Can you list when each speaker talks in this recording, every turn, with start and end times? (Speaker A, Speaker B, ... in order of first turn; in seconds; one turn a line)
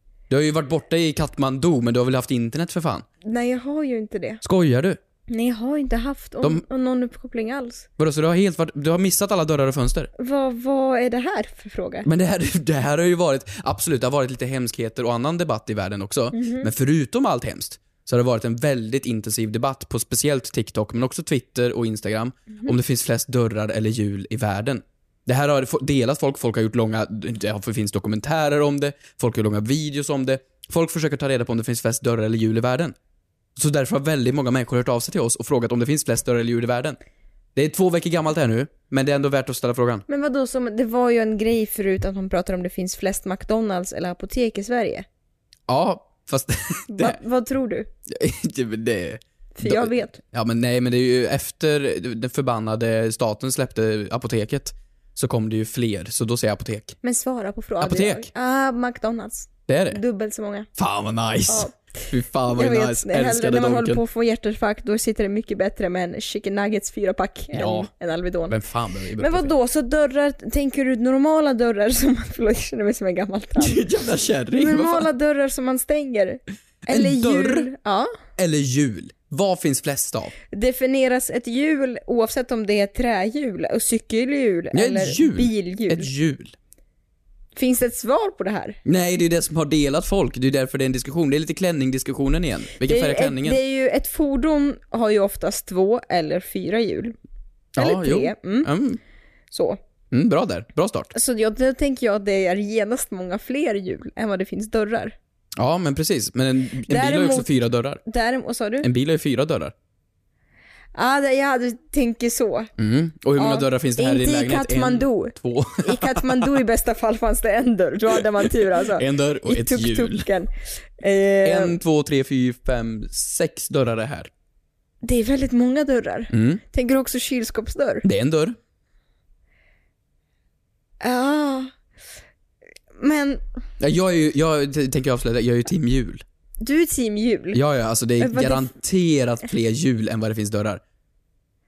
Speaker A: 0.3-3.1
Speaker B: 3.2-4.4
Speaker A: 4.4-5.0
Speaker B: 5.3-7.9
Speaker A: 8.0-10.1
Speaker B: 10.2-12.1
Speaker A: 12.1-33.0
Speaker B: 16.3-16.7
Speaker A: 33.6-37.0
Speaker A: 37.5-40.0
Speaker B: 40.1-45.1
Speaker A: 45.7-47.2
Speaker B: 46.9-47.9
Speaker A: 48.1-57.0
Speaker B: 49.5-50.2
Speaker B: 57.0-60.7
Speaker A: 57.8-58.3
Speaker A: 59.7-60.0
Speaker A: 60.8-64.0
Speaker B: 61.5-68.6
Speaker A: 67.5-67.9
Speaker A: 68.5-69.5
Speaker B: 69.2-73.8
Speaker A: 73.6-75.1
Speaker B: 74.5-78.1
Speaker A: 76.9-77.7
Speaker A: 78.4-80.3
Speaker B: 80.5-86.1
Speaker A: 84.7-86.5
Speaker B: 87.5-88.8
Speaker A: 88.8-93.6
Speaker B: 92.8-97.2
Speaker A: 97.8-99.0
Speaker B: 97.8-98.7
Speaker B: 99.5-99.8
Speaker A: 100.1-101.1
Speaker B: 101.1-105.2
Speaker A: 105.6-108.0
Speaker B: 106.9-107.5
Speaker B: 108.1-108.9
Speaker A: 108.8-109.7
Speaker B: 110.9-112.7
Speaker A: 112.8-116.6
Speaker B: 113.4-121.8
Speaker A: 118.5-120.3
Speaker A: 121.4-124.3
Speaker B: 125.0-128.1
Speaker A: 126.3-126.6
Speaker A: 128.0-128.6
Speaker B: 131.0-131.7
Speaker B: 133.0-133.4
Speaker A: 133.8-136.2
Speaker B: 136.6-137.6
Speaker A: 137.5-140.8
Speaker B: 138.2-138.7